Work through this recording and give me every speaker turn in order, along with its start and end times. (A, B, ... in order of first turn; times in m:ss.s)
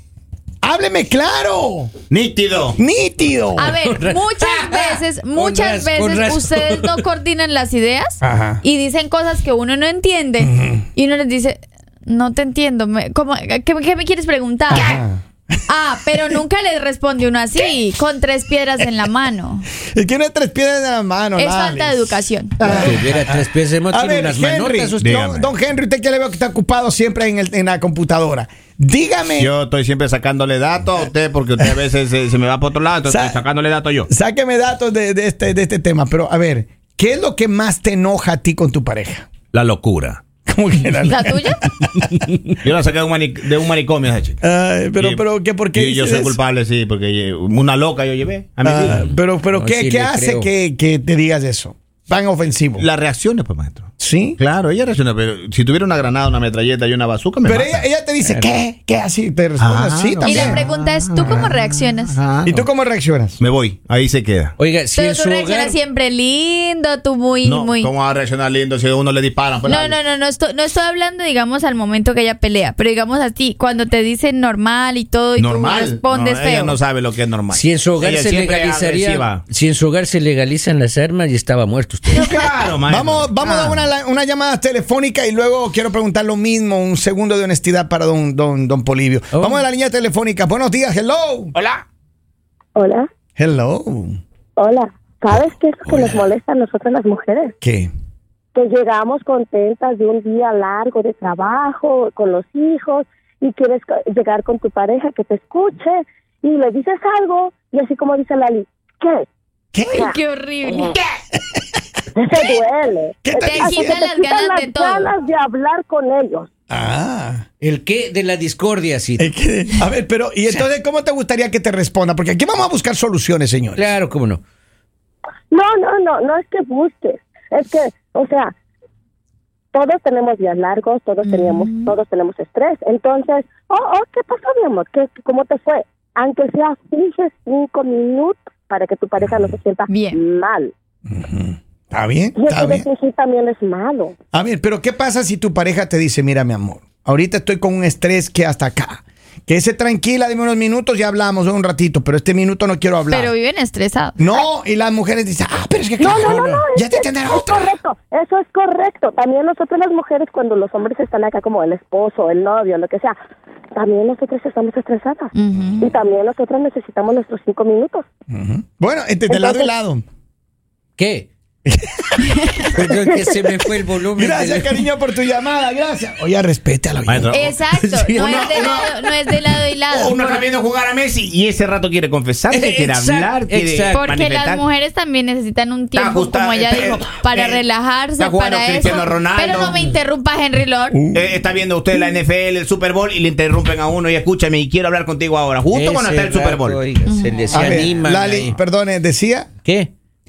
0:00.6-0:01.9 A
0:02.1-0:02.8 B
0:02.8-0:03.8 A
0:03.6-0:15.0 C
0:03.8-0:07.0 D
0:08.2-0:08.6 A
0:10.4-0:10.8 A
0:14.7-0:15.6 A
0:15.7-0:19.6 C
0:19.9-0:29.5 A
0:21.4-0:22.6 C
0:22.6-0:25.2 D
0:25.0-0:25.5 B
0:29.4-0:34.1 B
0:33.1-0:33.4 A
0:34.1-0:39.3 A
0:39.5-0:40.2 B
0:40.4-0:42.0 A
0:41.1-0:41.6 C
0:42.6-0:44.4 B
0:44.4-0:46.4 A
0:44.9-0:49.0 B
0:48.6-0:52.9 A
0:48.9-0:50.5 D
0:52.8-0:57.9 B
0:54.0-0:54.4 A
0:57.4-1:00.6 A
0:58.2-0:58.6 D
0:59.6-1:02.6 B
1:00.2-1:02.2 C
1:02.4-1:03.4 A
1:03.4-1:04.5 B
1:04.6-1:05.8 D
1:04.9-1:07.9 C
1:07.4-1:10.0 B
1:09.6-1:16.8 C
1:15.4-1:19.4 B
1:17.5-1:22.3 D
1:22.1-1:23.9 B
1:22.2-1:22.5 C
1:22.8-1:31.5 A
1:29.3-1:29.6 D
1:32.8-1:33.1 E
1:33.4-1:34.2 A
1:34.6-1:37.5 E
1:35.9-1:36.3 D
1:37.6-1:37.9 A
1:38.5-1:49.2 E
1:49.7-1:50.1 A
1:49.8-1:51.0 C
1:51.3-1:51.6 A
1:52.1-1:56.5 E
1:53.2-1:54.0 A
1:53.4-1:55.1 C
1:56.7-1:57.4 A
1:57.6-1:59.3 D
1:59.2-2:03.9 A
2:03.7-2:04.4 D
2:05.5-2:08.5 E
2:09.7-2:20.7 E
2:11.2-2:11.9 C
2:19.9-2:20.2 C
2:21.1-2:22.8 A
2:22.4-2:24.1 E
2:24.3-2:33.3 A
2:33.1-2:34.2 C
2:34.2-2:37.8 A
2:36.0-2:43.2 E
2:36.2-2:36.6 D
2:43.7-2:48.0 E
2:45.3-2:45.9 C
2:48.3-2:50.0 A
2:49.3-2:49.7 E
2:51.0-2:51.3 D
2:51.6-2:53.0 A
2:52.2-2:52.7 C
2:52.7-2:54.9 D
2:54.1-2:57.3 A
2:57.1-2:57.5 B
2:57.3-3:00.2 C
2:57.7-2:58.7 D
2:58.2-2:58.9 B
2:59.9-3:04.6 B
3:02.5-3:04.0 D
3:03.9-3:11.0 C
3:05.9-3:07.6 B
3:08.2-3:09.9 B
3:10.9-3:11.4 A
3:11.1-3:16.8 B
3:15.7-3:18.6 D
3:17.1-3:17.8 C
3:17.5-3:19.5 A
3:19.6-3:19.9 D